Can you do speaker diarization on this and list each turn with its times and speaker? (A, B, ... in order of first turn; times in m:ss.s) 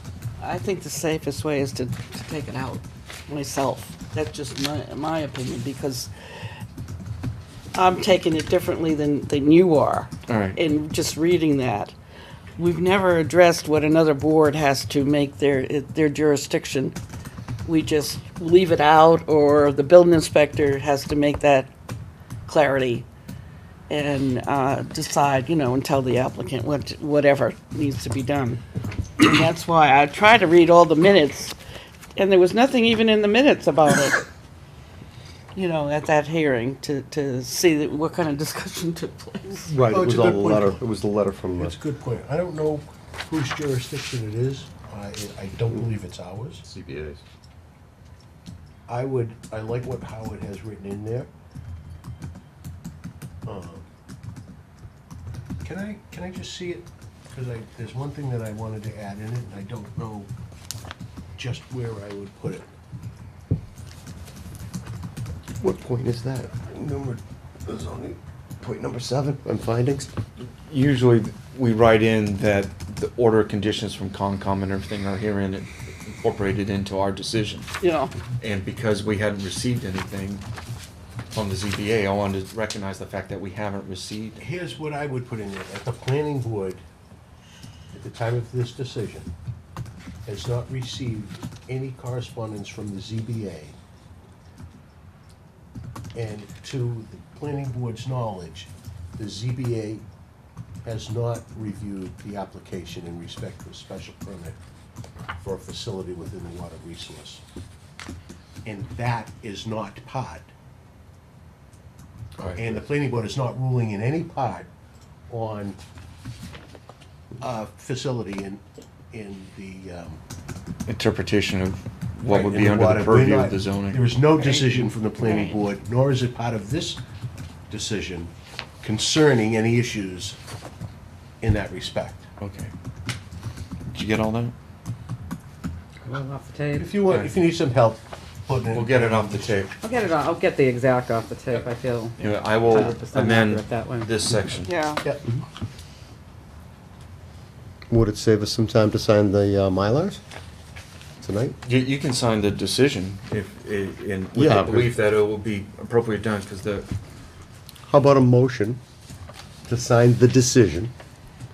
0:00.4-0:06.1 A
0:07.7-0:11.9 A
0:10.3-0:10.6 B
0:12.6-0:17.0 A
0:17.6-0:21.7 A
0:22.5-0:23.1 A
0:23.9-0:28.6 A
0:29.2-0:31.6 A
0:32.2-0:34.2 A
0:35.6-0:39.8 A
0:39.7-0:41.8 C
0:39.9-0:40.8 D
0:41.6-0:46.6 D
0:48.9-0:51.3 D
0:53.4-0:53.9 D
0:55.6-1:00.3 D
1:01.4-1:02.7 D
1:05.6-1:10.1 C
1:10.4-1:17.7 B
1:17.8-1:18.1 A
1:18.4-1:20.4 B
1:21.3-1:24.5 B
1:24.4-1:26.8 D
1:27.9-1:29.3 D
1:30.3-1:33.8 D
1:36.2-1:40.1 D
1:40.8-1:44.6 D
1:45.4-1:47.4 D
1:48.6-1:50.5 D
1:52.4-1:52.8 B
1:52.5-1:54.7 D
1:55.3-1:55.8 D
1:57.4-2:00.2 D
2:00.9-2:04.0 B
2:02.3-2:07.0 D
2:04.4-2:05.6 A
2:07.7-2:10.4 D
2:11.4-2:12.3 D
2:12.4-2:12.7 B
2:13.9-2:14.5 B
2:16.0-2:17.0 E
2:16.8-2:19.7 D
2:17.1-2:17.4 B
2:18.7-2:19.8 B
2:19.8-2:24.1 E
2:22.2-2:24.7 B
2:24.7-2:25.0 A
2:27.9-2:30.2 C
2:31.2-2:31.6 C
2:31.6-2:36.9 B
2:34.4-2:34.9 C
2:37.9-2:38.8 C
2:39.7-2:40.9 C